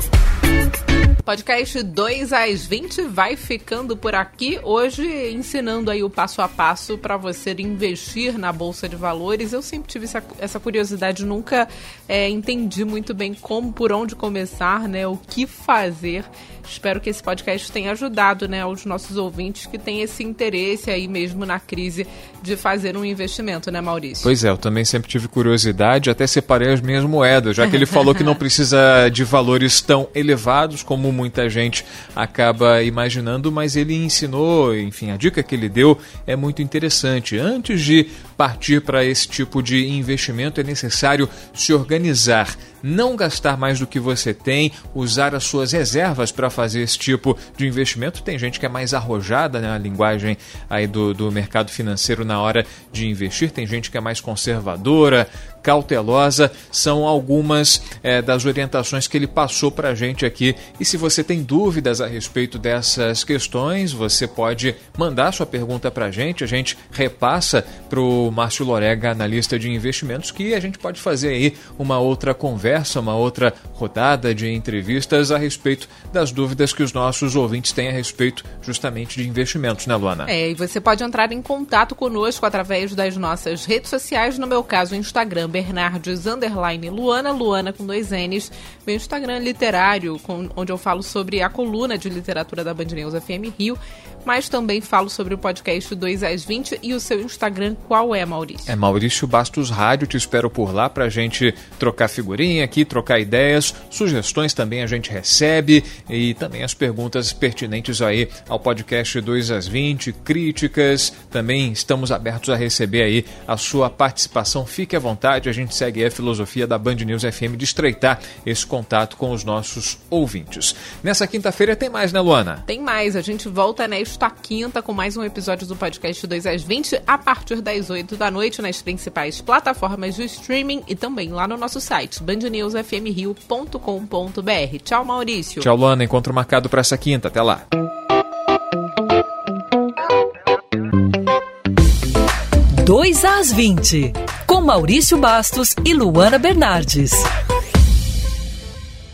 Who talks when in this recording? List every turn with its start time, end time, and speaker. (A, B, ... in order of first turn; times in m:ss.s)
0:01.2-0:24.3 A
0:24.2-1:20.3 B
1:20.2-1:38.7 A
1:38.7-2:02.6 B
2:02.6-2:15.7 A
2:15.6-2:17.6 B
2:22.8-2:27.3 C